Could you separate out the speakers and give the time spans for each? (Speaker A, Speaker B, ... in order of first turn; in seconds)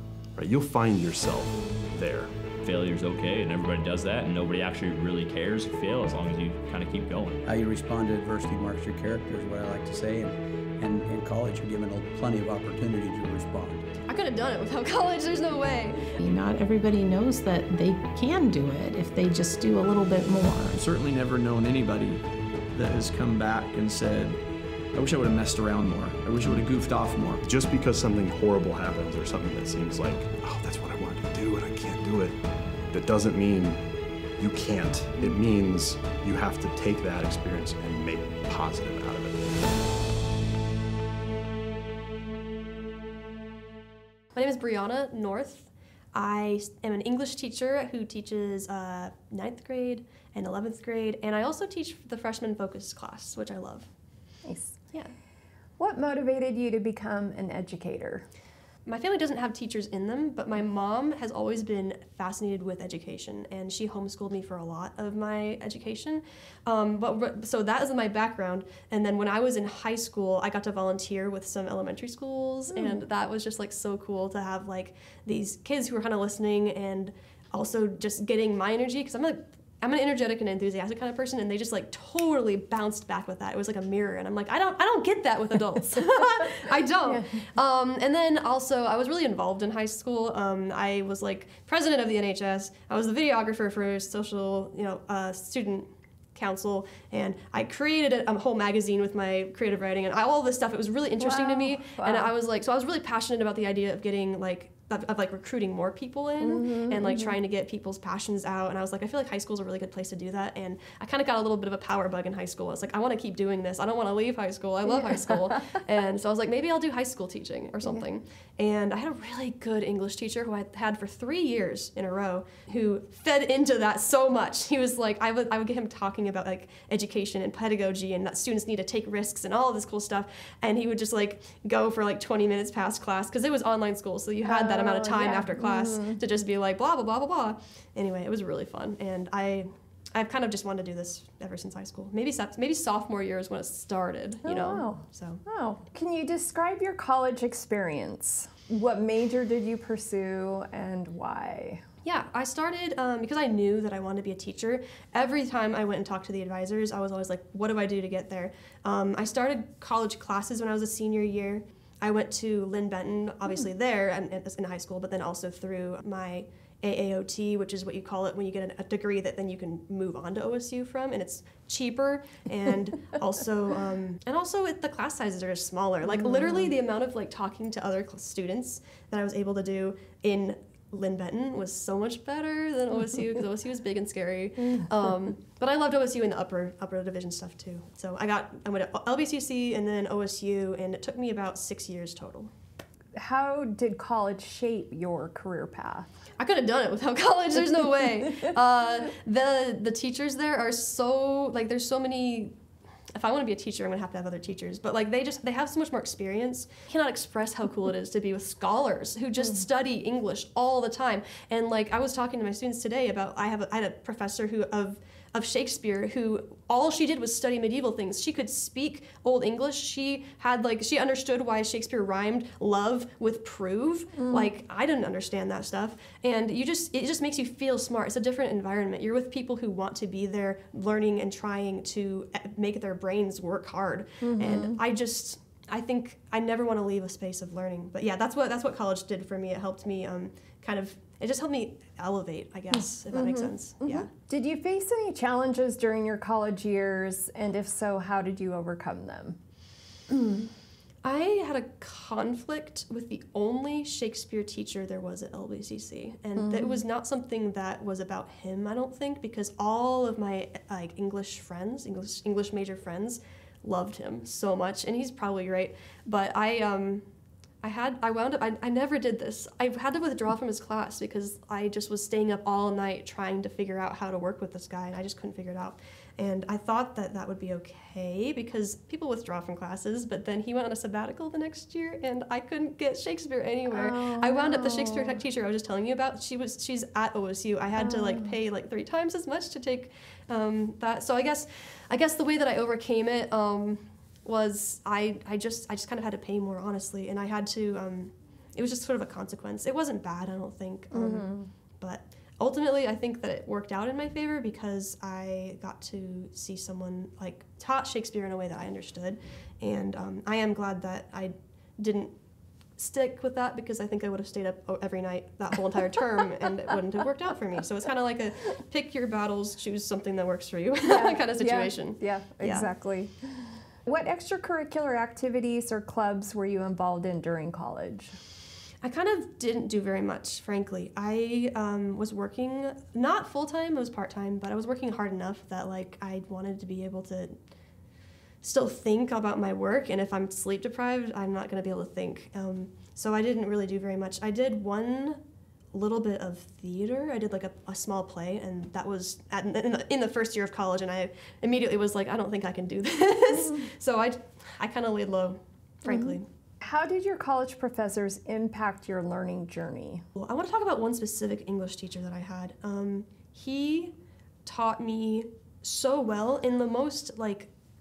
Speaker A: 0.4-2.3, 27.4-32.4, 32.9-33.8, 34.4-39.6
Speaker B: 2.6-7.4
Speaker C: 7.5-13.9
Speaker D: 14.1-16.1, 44.4-53.9, 58.9-145.4, 152.0-192.5, 196.4-202.5, 203.1-244.1, 251.0-267.1, 267.6-312.1, 312.8-322.7, 328.8-337.3, 338.4-345.2, 345.7-356.2, 360.1-363.9, 364.4-367.5
Speaker E: 16.2-20.8
Speaker F: 20.7-24.4, 24.9-27.4
Speaker G: 54.5-54.8, 55.8-58.3, 87.0-87.4, 101.2-102.3, 106.4-107.3, 134.4-136.2, 144.4-151.8, 193.2-196.1, 224.2-224.5, 234.2-234.8, 242.7-249.4, 250.1-250.5, 256.4-256.8, 283.7-285.2, 287.8-288.3, 300.9-301.5, 320.8-328.1, 355.9-360.1